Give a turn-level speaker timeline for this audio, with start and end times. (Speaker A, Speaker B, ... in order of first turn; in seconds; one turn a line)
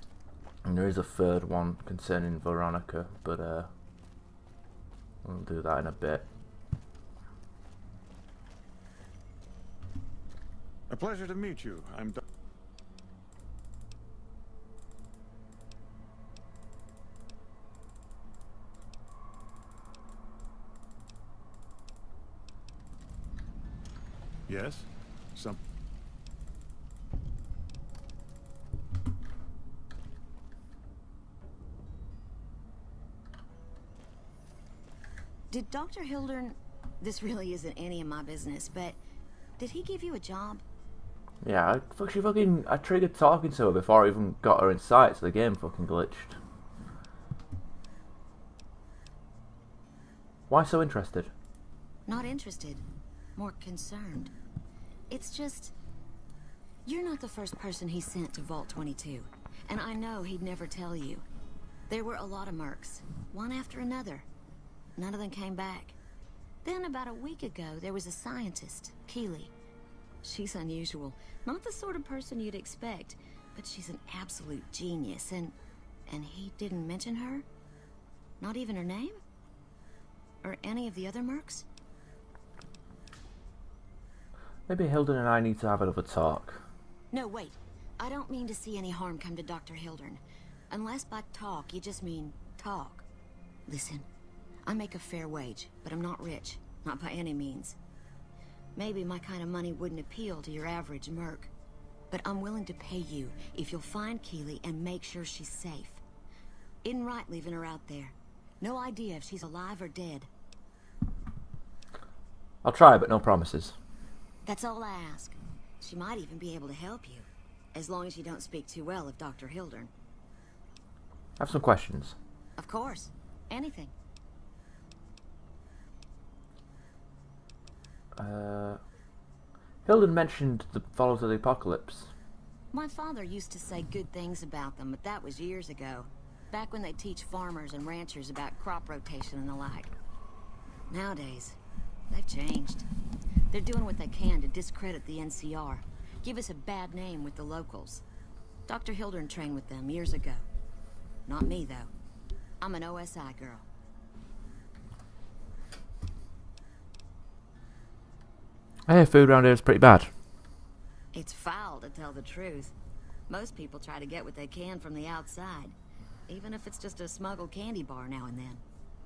Speaker A: 0.7-3.7
Speaker A: 5.2-6.3
Speaker B: 10.9-12.2
Speaker B: 24.5-25.6
Speaker C: 35.5-39.0
Speaker C: 39.6-40.6
Speaker A: 41.4-46.4
Speaker A: 50.5-51.3
Speaker C: 52.1-52.8
Speaker C: 53.4-54.3
Speaker C: 55.1-55.8
Speaker C: 56.9-61.2
Speaker C: 61.9-64.3
Speaker C: 65.0-66.0
Speaker C: 66.6-69.5
Speaker C: 70.2-75.6
Speaker C: 76.1-77.5
Speaker C: 78.4-79.2
Speaker C: 80.4-81.7
Speaker A: 84.7-86.7
Speaker C: 87.1-93.0
Speaker C: 93.7-94.1
Speaker C: 94.7-97.8
Speaker C: 98.8-101.5
Speaker C: 102.1-106.0
Speaker C: 106.8-110.3
Speaker A: 112.6-113.8
Speaker C: 114.4-119.9
Speaker A: 121.4-122.2
Speaker C: 122.6-123.9
Speaker A: 128.2-128.8
Speaker A: 129.8-132.1
Speaker C: 132.7-139.9
Speaker C: 140.9-141.6
Speaker C: 142.1-142.9
Speaker C: 143.5-148.0
Speaker C: 148.7-150.4
Speaker C: 151.3-151.9
Speaker C: 152.6-153.7
Speaker A: 158.9-160.1
Speaker C: 161.1-162.7
Speaker C: 163.3-165.8
Speaker C: 166.3-168.6